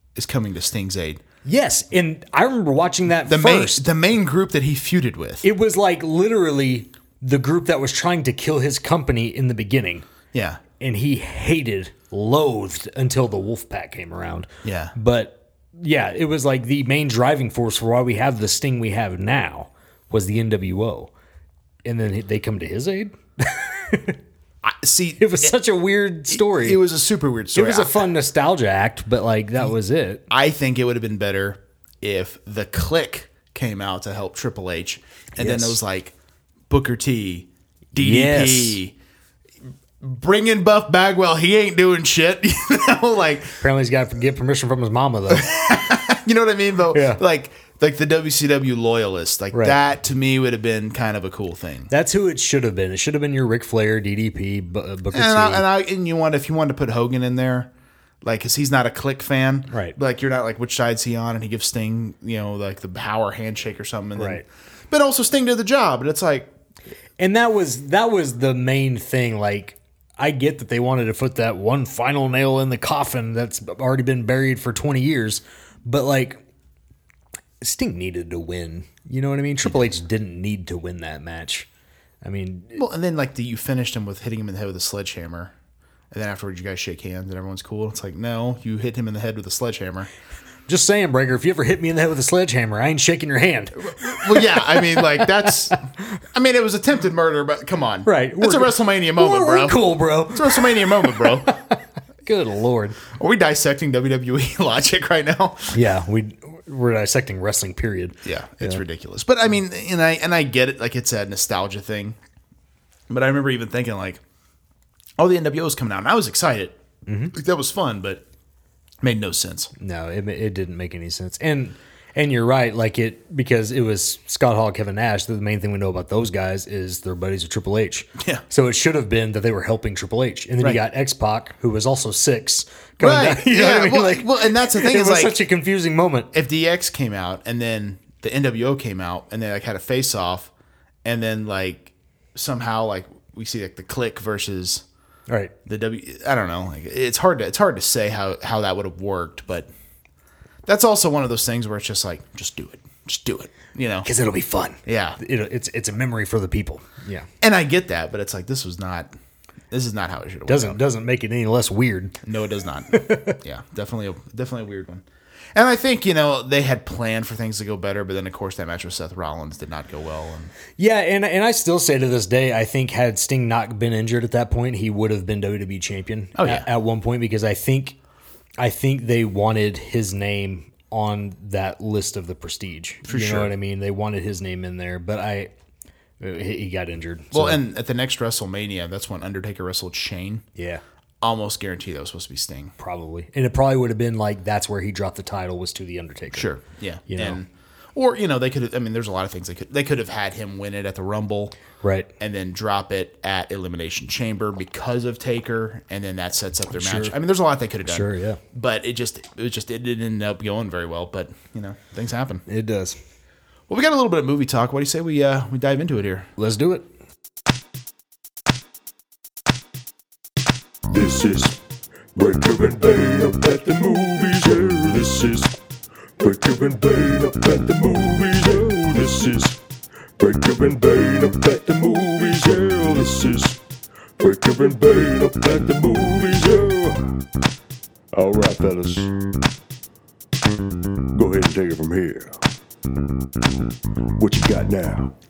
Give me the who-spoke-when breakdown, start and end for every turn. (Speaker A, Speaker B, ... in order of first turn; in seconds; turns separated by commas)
Speaker A: 0.1-1.2, Speaker B: 1.4-3.9, Speaker A: 3.2-5.5, Speaker B: 5.4-10.1, Speaker A: 10.3-10.6, Speaker B: 10.8-21.1, Speaker A: 14.6-14.9, Speaker B: 21.8-24.2, Speaker A: 24.6-25.6, Speaker B: 25.2-26.8, Speaker A: 26.3-28.1, Speaker B: 27.5-30.2, Speaker A: 30.3-36.1, Speaker B: 35.4-35.8, Speaker A: 36.7-38.9, Speaker B: 38.0-38.8, Speaker A: 40.0-43.6, Speaker B: 43.6-45.5, Speaker A: 45.3-51.9, Speaker B: 46.9-47.2, Speaker B: 49.5-49.8, Speaker B: 51.9-55.6, Speaker A: 55.1-57.7, Speaker A: 58.2-66.5, Speaker B: 59.7-60.0, Speaker B: 64.2-64.5, Speaker B: 67.2-76.4, Speaker B: 77.6-81.7, Speaker B: 82.2-82.8, Speaker A: 82.7-85.5, Speaker A: 86.1-90.1, Speaker B: 90.7-95.8, Speaker A: 93.8-95.8, Speaker A: 96.3-101.5, Speaker B: 98.0-103.0, Speaker A: 103.1-105.8, Speaker B: 105.7-108.8, Speaker A: 108.2-112.2, Speaker A: 113.1-114.2, Speaker A: 115.2-116.8, Speaker B: 117.0-117.3, Speaker A: 117.3-118.2, Speaker A: 119.0-119.7, Speaker B: 119.8-136.3, Speaker A: 133.0-135.4, Speaker A: 136.3-140.5, Speaker A: 141.0-144.8, Speaker A: 145.7-149.7, Speaker A: 150.7-154.1, Speaker B: 154.0-157.3, Speaker A: 154.8-155.2, Speaker A: 157.4-159.1, Speaker A: 159.7-160.8, Speaker B: 160.5-162.2, Speaker A: 162.2-170.5, Speaker B: 162.9-163.4, Speaker B: 170.8-177.9, Speaker A: 176.3-176.7, Speaker B: 178.6-185.5, Speaker A: 183.1-183.5, Speaker B: 186.2-187.6, Speaker A: 187.3-190.4, Speaker B: 190.6-190.8, Speaker A: 191.2-192.7, Speaker B: 192.8-196.5, Speaker A: 196.3-201.6, Speaker B: 197.1-197.4, Speaker B: 201.8-202.1, Speaker A: 202.2-212.4, Speaker B: 206.7-207.2, Speaker B: 207.8-208.4, Speaker B: 212.5-213.0, Speaker A: 213.7-216.3, Speaker B: 216.4-216.9, Speaker C: 220.9-221.6, Speaker C: 222.1-225.5, Speaker C: 226.2-229.6, Speaker C: 230.2-233.6, Speaker C: 234.2-237.0, Speaker C: 238.1-239.1, Speaker C: 241.1-242.4, Speaker C: 244.2-245.1